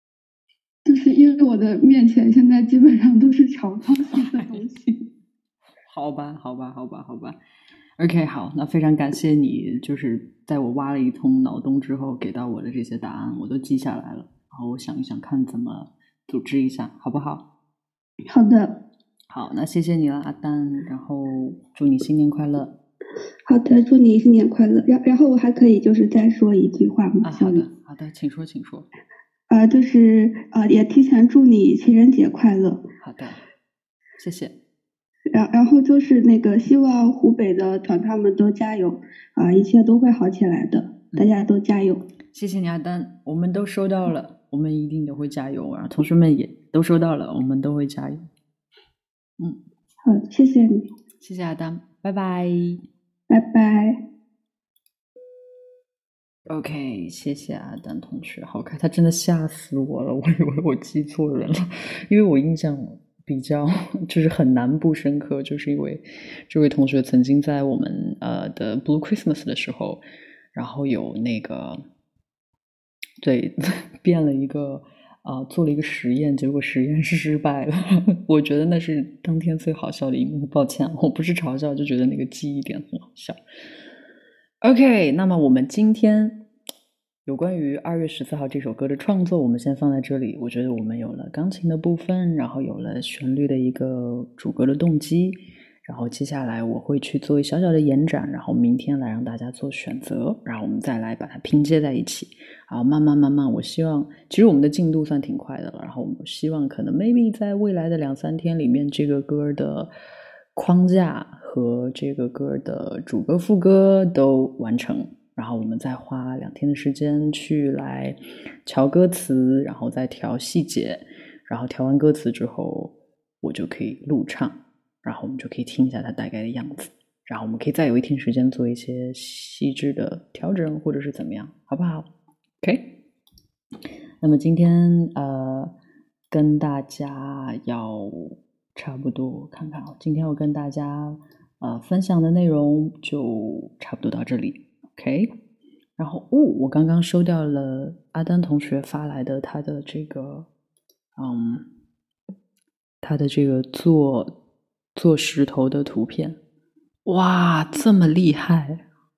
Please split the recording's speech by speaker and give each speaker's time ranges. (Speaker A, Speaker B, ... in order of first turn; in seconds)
Speaker A: 0.8-5.1, 18.3-18.8, 23.5-27.6, 29.5-32.8, 35.3-42.0, 50.0-50.9, 53.3-54.0
Speaker B: 5.9-7.4, 8.0-17.4, 19.3-22.8, 27.2-28.9, 33.0-33.4, 34.2-34.5, 42.3-48.3, 51.2-52.8, 56.5-70.0, 70.5-71.8, 73.2-83.4, 84.6-86.4, 87.3-109.9, 110.5-132.1, 134.2-135.7, 136.3-145.3, 146.0-150.5, 151.2-151.7, 153.0-154.3, 154.9-156.4, 157.1-158.8